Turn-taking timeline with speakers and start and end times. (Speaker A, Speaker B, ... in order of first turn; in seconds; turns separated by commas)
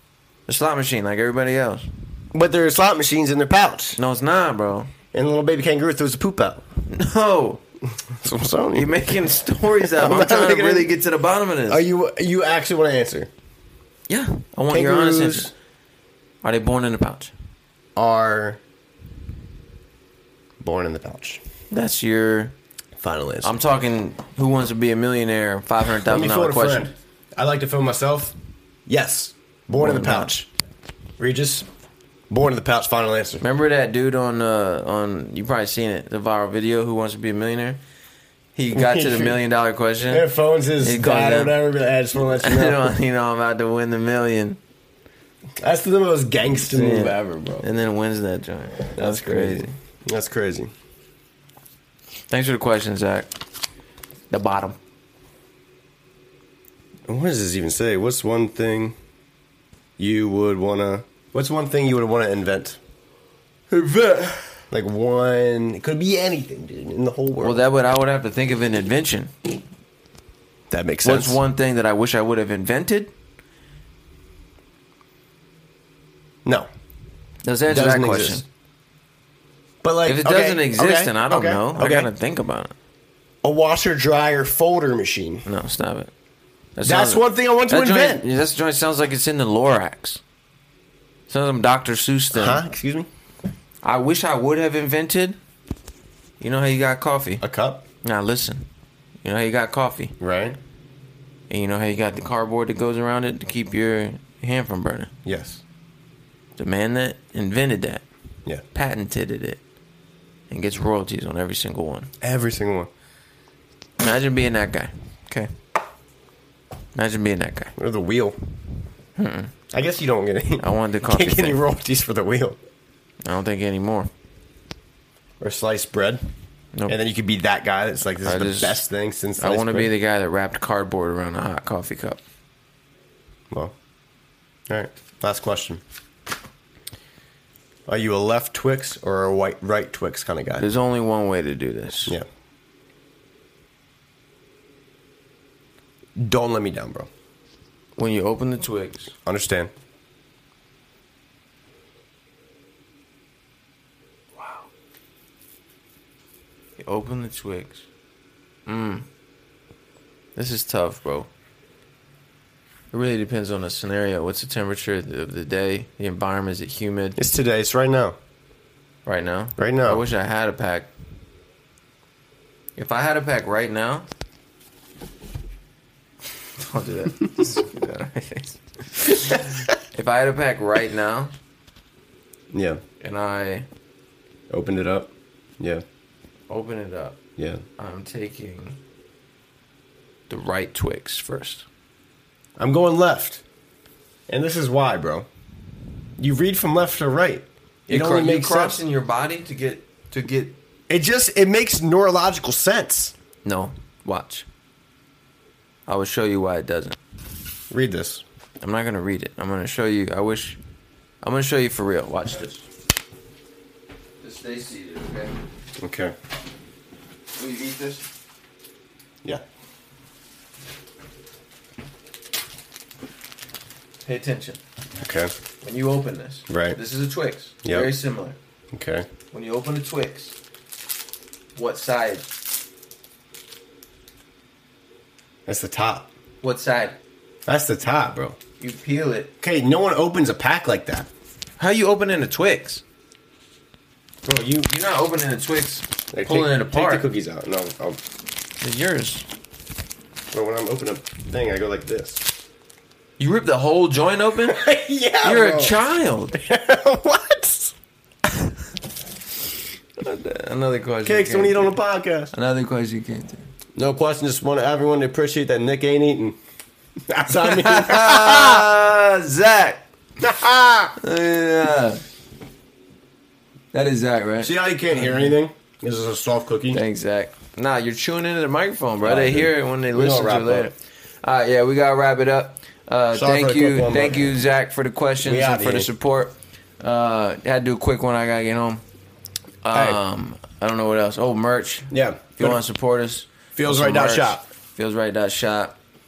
Speaker A: 0.5-1.9, Speaker B: 2.3-4.0, Speaker A: 4.0-4.9, Speaker B: 5.1-6.6, Speaker A: 6.9-7.6, Speaker B: 8.1-8.9, Speaker A: 8.8-11.8, Speaker B: 9.8-10.9, Speaker B: 11.7-13.3, Speaker A: 14.1-15.5, Speaker B: 14.7-15.5, Speaker A: 16.4-17.3, Speaker B: 18.0-18.6, Speaker B: 20.6-21.4, Speaker A: 21.7-22.6, Speaker B: 23.0-23.6, Speaker A: 23.4-26.9, Speaker B: 26.1-28.4, Speaker B: 28.9-30.5, Speaker A: 29.8-30.4, Speaker B: 31.2-31.7, Speaker B: 32.3-33.4, Speaker A: 33.4-37.8, Speaker A: 38.5-40.3, Speaker B: 38.7-39.4, Speaker B: 40.1-43.0, Speaker A: 40.8-41.6, Speaker A: 42.2-44.6, Speaker B: 45.6-47.7, Speaker A: 46.6-49.8, Speaker B: 49.0-50.7, Speaker A: 52.3-53.3, Speaker A: 54.3-54.8, Speaker B: 57.1-59.0, Speaker B: 60.0-62.8, Speaker B: 63.7-67.6, Speaker A: 67.4-69.3, Speaker B: 70.7-71.4, Speaker A: 71.0-73.1, Speaker A: 77.4-78.5, Speaker B: 77.7-78.4, Speaker B: 79.8-82.1, Speaker A: 80.0-82.7, Speaker B: 83.4-85.5, Speaker A: 85.5-86.1, Speaker A: 86.8-90.2, Speaker B: 86.8-88.2, Speaker A: 91.3-92.6, Speaker B: 92.3-93.1, Speaker A: 93.8-95.4, Speaker A: 96.4-97.4, Speaker B: 97.4-97.8, Speaker A: 98.0-98.7, Speaker A: 99.2-100.2, Speaker B: 100.2-100.6, Speaker A: 101.5-105.1, Speaker B: 105.2-105.6, Speaker A: 106.6-108.0, Speaker A: 108.7-109.6, Speaker A: 110.5-112.1, Speaker B: 112.2-112.9, Speaker A: 114.0-115.5, Speaker A: 117.0-117.7, Speaker B: 117.8-118.4, Speaker A: 119.2-119.5, Speaker B: 119.7-122.6, Speaker A: 120.6-121.6, Speaker A: 123.2-124.1, Speaker B: 125.4-126.2, Speaker B: 126.9-129.9, Speaker A: 128.2-128.8, Speaker A: 129.4-132.2, Speaker B: 134.7-135.8, Speaker B: 137.9-140.7, Speaker A: 140.6-142.2, Speaker B: 146.2-147.1, Speaker A: 148.0-149.1, Speaker B: 149.3-149.7, Speaker A: 154.4-154.7, Speaker A: 156.8-157.9, Speaker A: 158.7-159.1, Speaker A: 160.4-161.3, Speaker A: 162.9-167.2, Speaker B: 167.2-168.2, Speaker A: 169.1-170.9, Speaker B: 169.6-170.1, Speaker A: 172.8-174.1, Speaker A: 176.6-181.3, Speaker B: 182.5-182.8, Speaker A: 183.0-183.7, Speaker B: 184.5-185.8, Speaker A: 186.5-187.2, Speaker B: 187.4-187.6, Speaker A: 187.8-188.8, Speaker A: 190.3-191.7, Speaker B: 192.6-193.4, Speaker B: 194.3-195.3, Speaker B: 196.2-198.8, Speaker A: 197.9-200.6, Speaker B: 200.9-203.1, Speaker A: 203.4-204.5, Speaker A: 205.9-207.0, Speaker B: 207.7-208.2, Speaker A: 208.6-210.6, Speaker A: 211.2-212.7, Speaker A: 214.2-215.4, Speaker B: 215.8-216.2, Speaker A: 217.3-218.1, Speaker A: 224.1-224.6, Speaker B: 225.0-225.3, Speaker A: 225.6-228.4, Speaker B: 226.5-226.8, Speaker B: 227.6-227.9, Speaker B: 228.7-229.1, Speaker A: 229.3-230.4, Speaker A: 231.6-232.3, Speaker B: 235.5-236.1, Speaker A: 236.4-237.0, Speaker B: 237.5-238.4, Speaker A: 238.6-239.3, Speaker B: 239.4-241.1, Speaker A: 241.6-242.8, Speaker B: 244.2-244.7, Speaker A: 244.7-247.1, Speaker B: 246.1-248.0, Speaker A: 248.6-249.3, Speaker B: 250.3-252.3, Speaker A: 253.2-254.6, Speaker B: 254.5-255.8, Speaker A: 255.2-256.4, Speaker B: 256.3-257.7, Speaker A: 260.0-261.8, Speaker B: 261.1-262.3, Speaker A: 262.3-263.4, Speaker B: 263.8-266.4, Speaker B: 267.1-268.7, Speaker A: 267.3-269.9, Speaker B: 270.2-271.0, Speaker A: 271.0-272.0, Speaker A: 273.7-275.3, Speaker B: 274.4-276.8, Speaker A: 276.7-288.8, Speaker B: 279.0-280.7, Speaker B: 283.1-284.3, Speaker B: 285.2-285.9, Speaker A: 289.6-295.8, Speaker B: 289.7-290.0, Speaker B: 291.9-292.6, Speaker B: 293.6-294.4